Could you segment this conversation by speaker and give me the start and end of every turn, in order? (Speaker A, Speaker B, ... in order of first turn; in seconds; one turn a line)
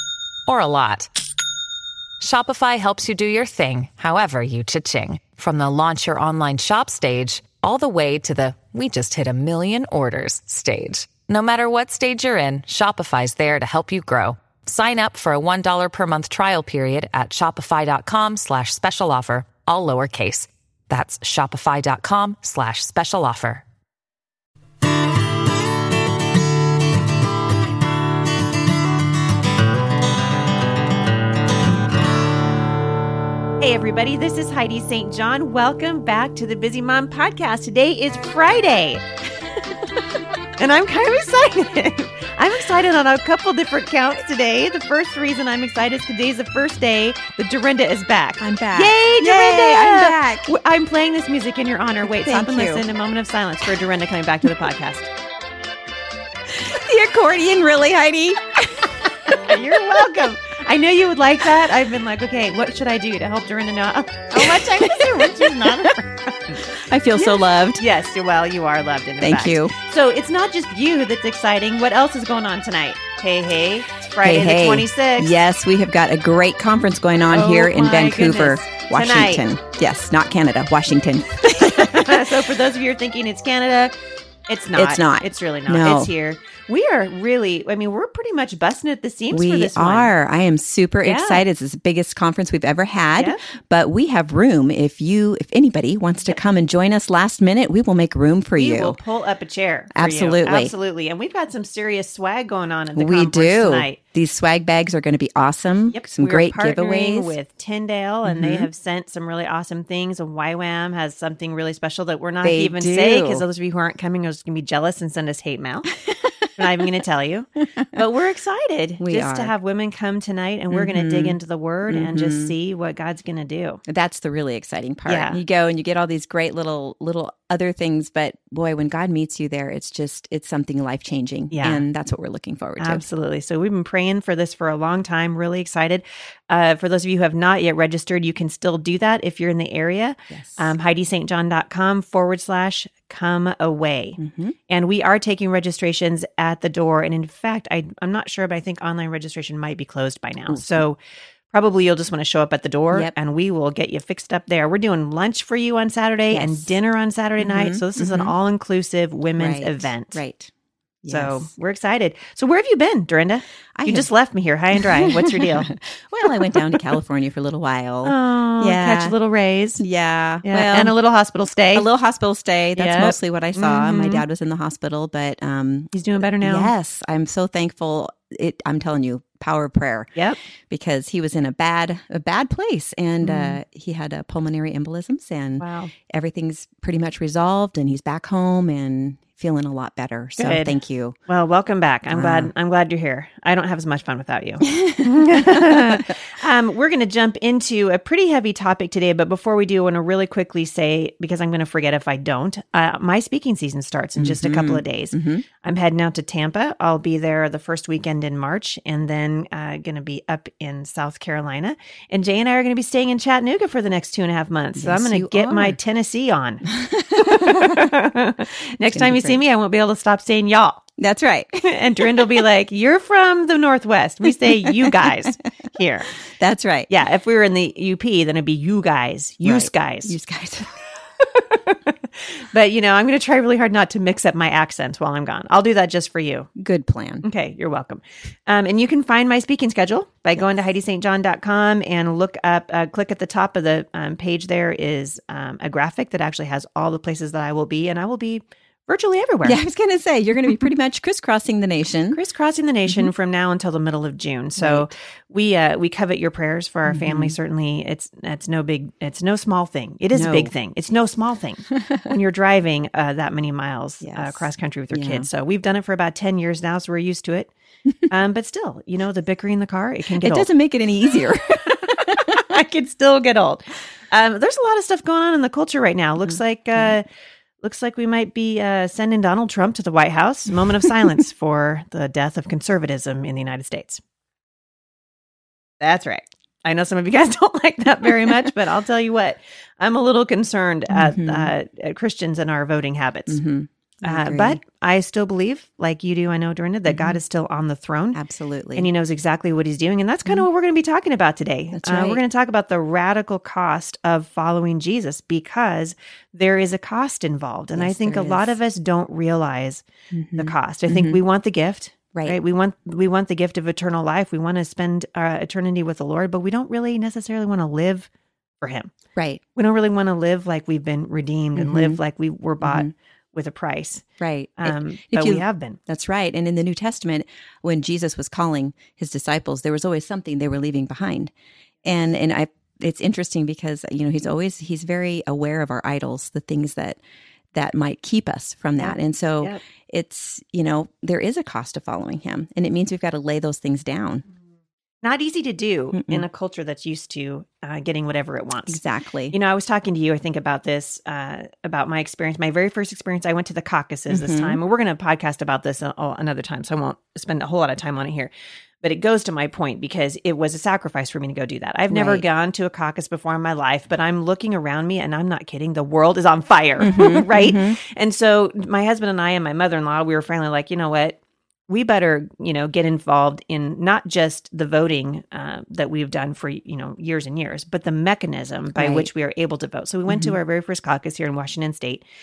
Speaker A: 0.5-1.1
Speaker A: 2.2-23.6
Speaker B: 33.6-39.0
Speaker B: 40.6-55.1
Speaker C: 48.4-50.5
Speaker C: 52.0-52.8
Speaker C: 56.5-59.4
Speaker B: 59.3-75.3
Speaker C: 64.4-65.8
Speaker C: 66.8-67.8
Speaker C: 69.2-69.7
Speaker C: 74.2-82.3
Speaker B: 77.3-79.5
Speaker B: 81.6-83.9
Speaker B: 84.5-90.1
Speaker C: 84.7-86.1
Speaker C: 89.3-99.0
Speaker B: 91.0-91.4
Speaker B: 98.5-104.0
Speaker C: 99.9-100.7
Speaker C: 102.9-107.3
Speaker B: 105.9-116.0
Speaker C: 108.2-108.7
Speaker C: 112.4-113.4
Speaker B: 116.5-123.8
Speaker C: 119.0-119.5
Speaker C: 120.7-122.5
Speaker C: 123.9-133.1
Speaker B: 125.1-125.4
Speaker B: 131.5-131.8
Speaker B: 132.8-151.0
Speaker C: 140.3-140.7
Speaker C: 144.2-144.6
Speaker C: 150.5-150.8
Speaker B: 151.5-160.2
Speaker C: 156.3-156.7
Speaker C: 157.4-158.3
Speaker C: 159.3-160.5
Speaker C: 161.0-161.5
Speaker B: 161.1-165.7
Speaker C: 163.8-164.1
Speaker C: 164.7-169.1
Speaker B: 168.0-169.8
Speaker C: 169.8-170.9
Speaker B: 170.4-171.9
Speaker C: 171.7-180.1
Speaker B: 172.7-174.2
Speaker B: 175.9-176.7
Speaker C: 180.7-191.2
Speaker B: 183.2-183.6
Speaker B: 185.6-185.9
Speaker B: 190.3-220.8
Speaker C: 192.1-192.5
Speaker C: 194.8-196.0
Speaker C: 204.2-205.4
Speaker C: 214.8-215.8
Speaker C: 216.8-217.9
Speaker C: 218.8-219.4
Speaker C: 221.0-222.3
Speaker B: 221.6-226.2
Speaker C: 224.6-225.2
Speaker C: 226.4-226.9
Speaker B: 226.9-230.2
Speaker C: 229.4-230.7
Speaker B: 231.2-236.5
Speaker C: 236.6-237.2
Speaker B: 237.2-249.6
Speaker C: 249.4-252.2
Speaker B: 252.1-267.5
Speaker C: 254.6-254.9
Speaker C: 256.9-257.4
Speaker C: 260.1-260.5
Speaker C: 264.0-265.3
Speaker B: 268.1-270.5
Speaker C: 270.2-272.3
Speaker B: 272.3-277.1
Speaker C: 276.2-276.9
Speaker B: 277.6-284.0
Speaker B: 285.8-293.4
Speaker C: 290.9-291.5
Speaker C: 293.3-294.6
Speaker B: 294.0-298.2
Speaker C: 296.9-297.2
Speaker C: 298.1-298.9
Speaker B: 298.7-309.9
Speaker C: 301.7-302.2
Speaker C: 307.7-308.6
Speaker C: 310.1-311.2
Speaker B: 310.4-318.1
Speaker B: 318.6-318.9
Speaker C: 319.1-319.4
Speaker B: 319.5-324.0
Speaker C: 321.6-322.0
Speaker C: 322.6-322.9
Speaker C: 324.2-331.3
Speaker B: 324.6-325.8
Speaker C: 331.8-337.0
Speaker C: 337.5-344.2
Speaker B: 338.8-339.6
Speaker B: 345.0-382.1
Speaker C: 345.9-346.2
Speaker C: 348.7-349.4
Speaker C: 354.1-354.6
Speaker C: 361.9-362.2
Speaker C: 366.8-367.8
Speaker C: 378.7-379.1
Speaker C: 380.1-380.4